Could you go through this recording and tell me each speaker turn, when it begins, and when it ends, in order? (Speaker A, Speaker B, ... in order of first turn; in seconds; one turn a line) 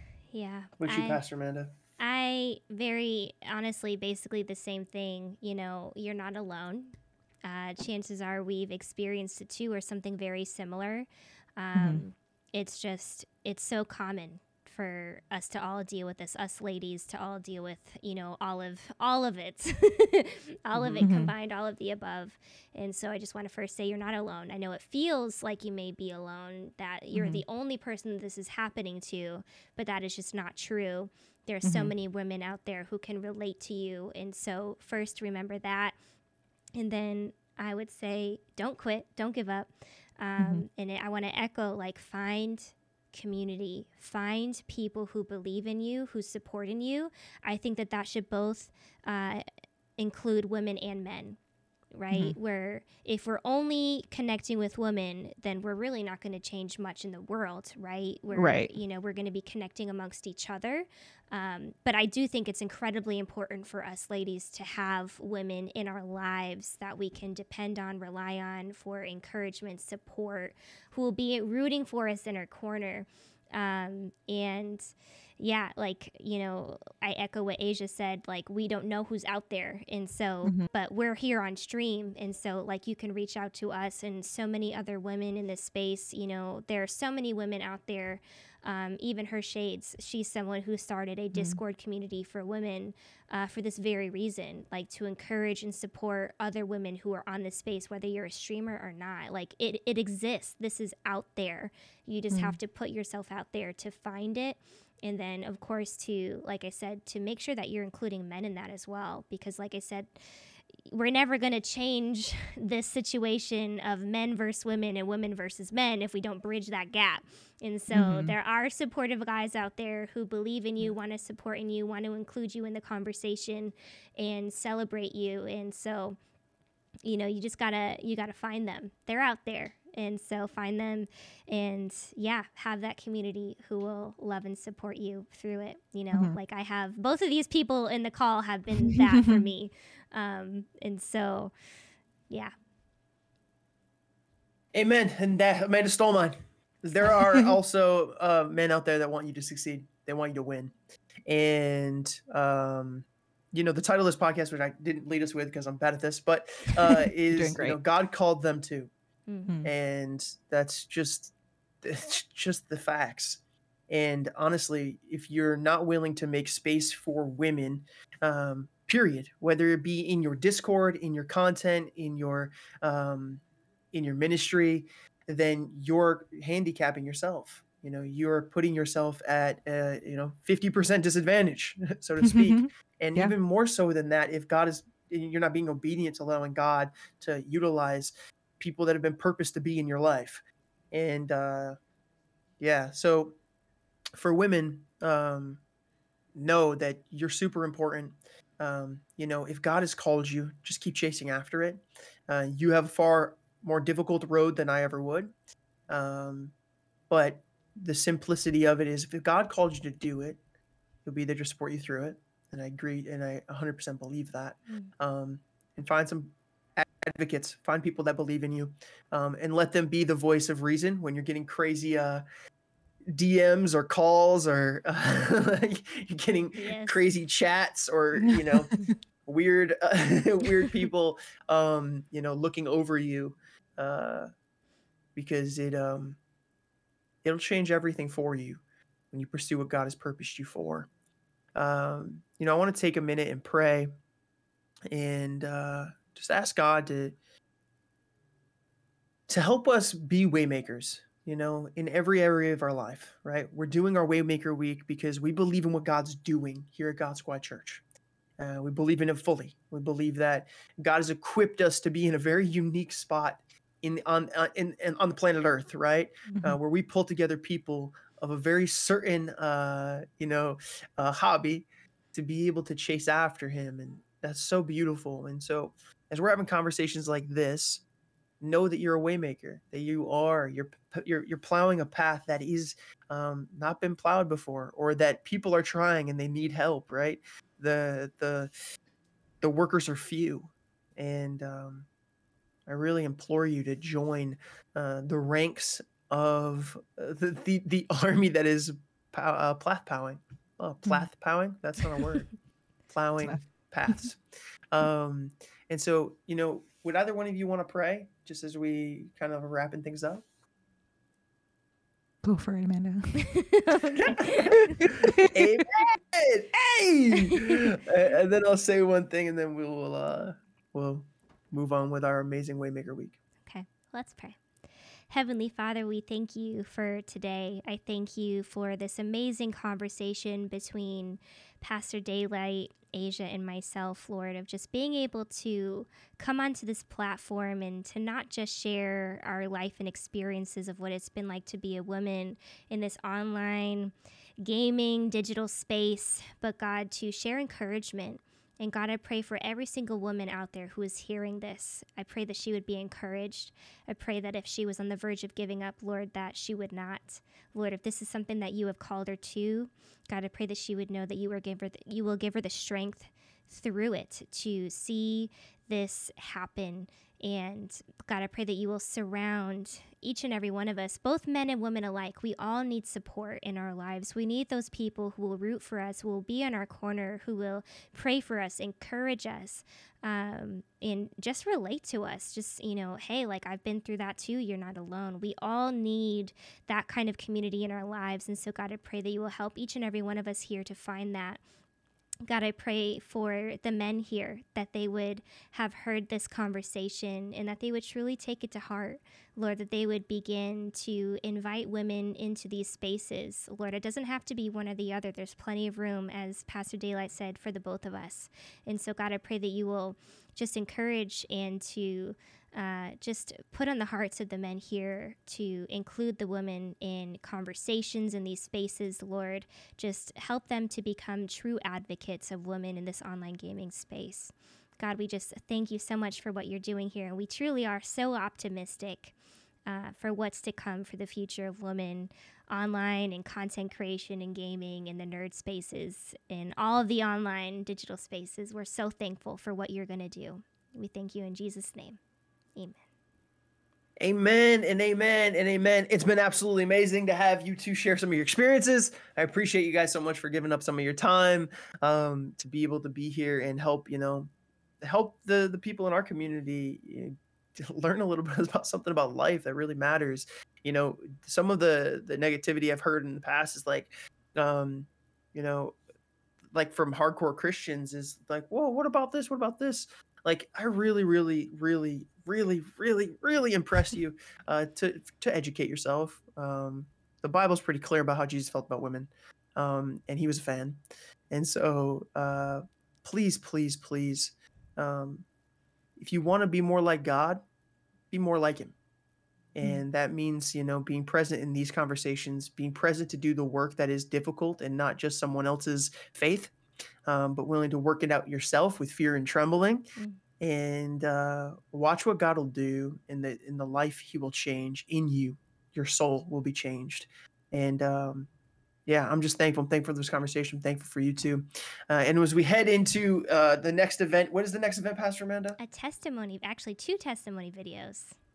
Speaker A: 0.3-1.2
Speaker B: 0.8-1.7
Speaker A: 2.0-6.9
Speaker A: 7.4-36.0
Speaker C: 11.7-12.0
Speaker B: 20.7-21.0
Speaker C: 21.0-21.3
Speaker C: 27.1-27.4
Speaker C: 31.6-31.9
Speaker A: 36.7-49.4
Speaker C: 40.4-40.6
Speaker A: 50.0-51.4
Speaker A: 51.9-110.3
Speaker C: 52.1-52.4
Speaker C: 58.3-58.7
Speaker C: 80.4-80.7
Speaker C: 91.3-91.6
Speaker C: 102.3-102.6
Speaker A: 110.8-126.2
Speaker C: 117.9-118.3
Speaker A: 127.0-141.5
Speaker C: 138.8-139.4
Speaker B: 144.7-150.7
Speaker B: 151.3-158.9
Speaker C: 156.8-157.8
Speaker A: 159.3-159.5
Speaker C: 159.5-159.7
Speaker B: 159.6-173.4
Speaker B: 173.9-191.8
Speaker C: 182.2-183.3
Speaker B: 192.6-193.3
Speaker B: 194.2-195.6
Speaker B: 196.3-205.3
Speaker B: 205.9-206.5
Speaker B: 207.1-210.4
Speaker B: 211.0-222.2
Speaker B: 223.1-228.7
Speaker A: 226.6-227.0
Speaker C: 228.5-228.9
Speaker B: 229.2-234.3
Speaker B: 235.2-236.2
Speaker B: 237.2-240.9
Speaker B: 241.5-243.9
Speaker B: 244.9-247.2
Speaker B: 249.3-257.8
Speaker B: 258.4-277.8
Speaker C: 266.3-266.6
Speaker B: 278.4-288.5
Speaker B: 289.4-291.9
Speaker B: 292.7-302.3
Speaker B: 302.9-304.2
Speaker B: 304.7-310.2
Speaker C: 312.2-313.5
Speaker A: 313.2-314.6
Speaker B: 313.9-323.2
Speaker C: 314.8-315.3
Speaker A: 323.4-324.4
Speaker A: 325.1-391.4
Speaker A: 392.2-429.1
Speaker A: 429.6-442.0
Speaker B: 444.0-454.3
Speaker B: 454.8-465.8
Speaker B: 466.5-485.2
Speaker B: 486.0-487.4
Speaker B: 488.1-488.7
Speaker B: 489.5-496.5
Speaker B: 497.1-499.9
Speaker B: 500.4-508.3
Speaker B: 508.9-515.6
Speaker A: 515.6-518.1